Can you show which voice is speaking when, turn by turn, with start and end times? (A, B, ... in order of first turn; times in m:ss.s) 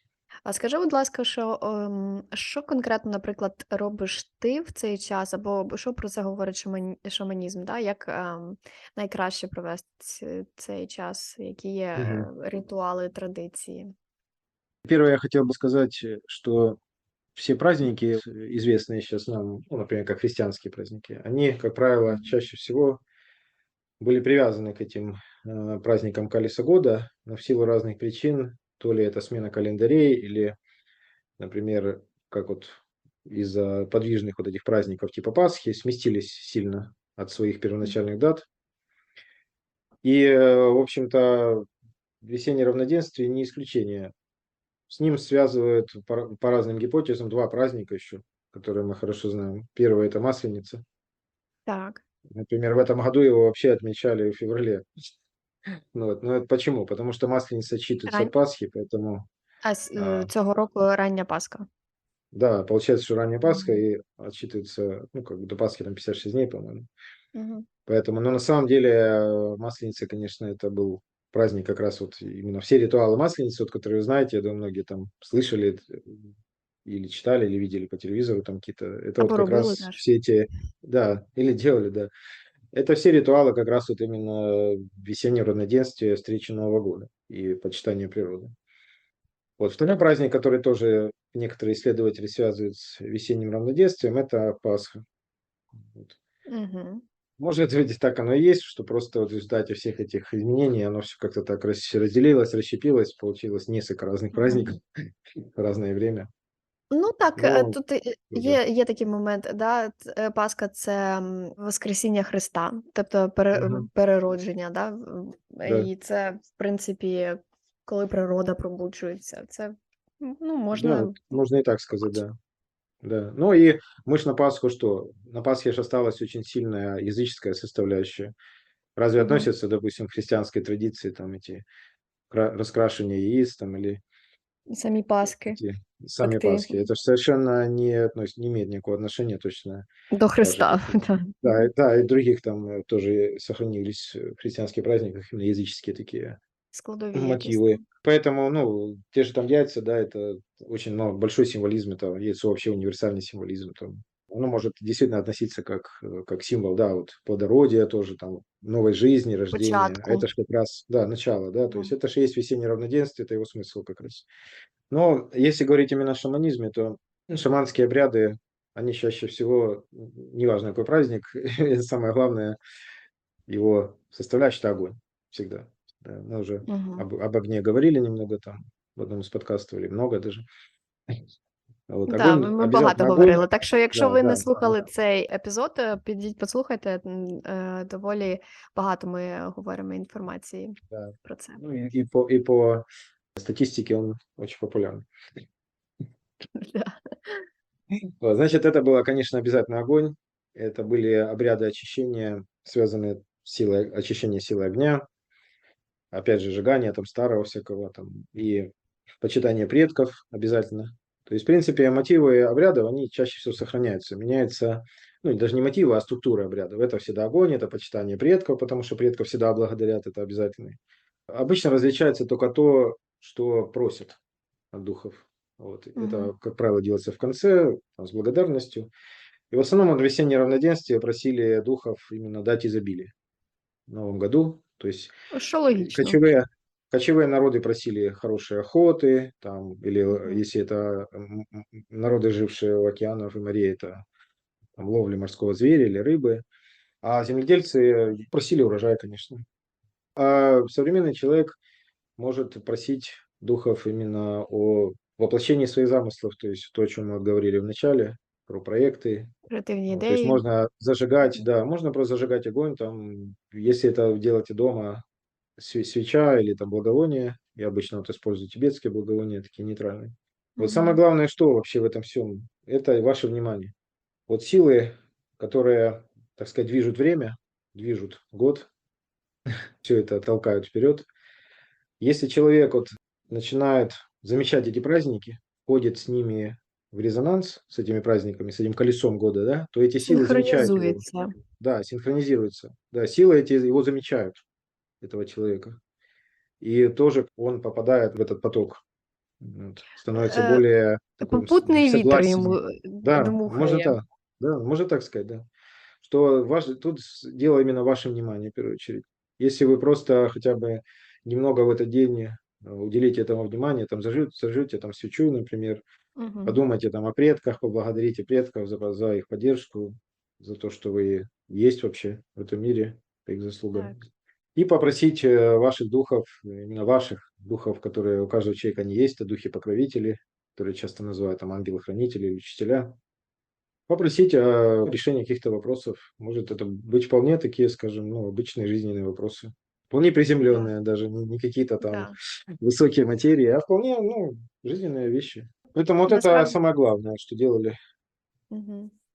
0:00.5-0:13.9 A
0:12.0-0:12.3 B
0:14.8-0:16.8 B
0:17.4-0:23.0 B
0:24.0-0:30.6 B
0:31.4-0:38.5 B
0:40.0-0:41.6 B
0:42.2-0:44.1 B
0:44.9-0:50.8 B
0:51.7-0:52.0 A
0:52.3-0:54.9 B
0:55.9-0:59.3 B
0:58.1-0:58.3 A
0:59.6-1:01.6 A
1:00.0-1:00.3 B
1:02.3-1:06.9 B
1:03.4-1:03.8 A
1:07.4-1:07.7 A
1:07.9-1:16.3 B
1:16.8-1:22.1 B
1:19.2-1:20.0 A
1:22.7-1:28.5 B
1:29.6-1:35.0 B
1:35.8-1:36.2 B
1:36.5-1:37.0 A
1:37.4-1:44.8 B
1:44.3-1:44.7 A
1:45.6-1:46.3 B
1:46.9-2:01.4 A
1:47.4-1:47.8 B
1:48.3-1:48.6 B
1:53.5-1:53.9 B
2:00.7-2:02.3 B
2:03.0-2:08.3 B
2:09.0-2:11.6 B
2:09.2-2:09.5 A
2:12.3-2:14.0 B
2:14.7-2:15.6 A
2:15.4-2:19.9 B
2:16.2-2:16.9 A
2:20.1-2:21.7 A
2:20.4-2:26.4 B
2:26.7-2:27.8 A
2:27.1-2:44.3 B
2:39.5-2:40.3 A
2:41.7-2:42.0 A
2:44.9-2:52.6 B
2:53.5-3:00.5 B
2:56.7-2:57.0 A
3:01.9-3:04.8 B
3:02.1-3:10.7 A
3:10.9-3:15.1 B
3:11.2-3:11.6 A
3:16.6-3:17.5 A
3:18.2-3:25.0 B
3:26.1-3:40.8 B
3:41.3-3:44.2 B
3:44.7-3:48.9 B
3:46.0-3:46.3 A
3:49.5-3:53.1 B
3:53.9-3:55.1 B
3:55.3-3:56.2 A
3:55.8-4:04.0 B
4:00.1-4:00.4 A
4:04.8-4:06.4 B
4:07.0-4:09.4 B
4:10.2-4:11.6 B
4:12.2-4:19.3 B
4:19.5-4:20.4 A
4:19.9-4:25.0 B
4:25.6-4:33.7 B
4:30.6-4:31.0 A
4:34.3-4:38.7 B
4:39.8-4:41.1 B
4:42.0-4:51.0 B
4:50.1-4:51.3 A
4:51.6-4:54.4 B
4:55.0-4:55.8 B
4:56.6-4:58.8 B
4:59.4-5:05.5 B
5:00.2-5:00.6 A
5:01.2-5:04.0 A
5:06.0-5:15.8 B
5:16.2-5:16.6 A
5:16.5-5:24.0 B
5:24.6-5:32.9 B
5:33.9-5:47.8 B
5:41.8-5:42.2 A
5:46.1-5:46.6 A
5:48.5-5:48.9 A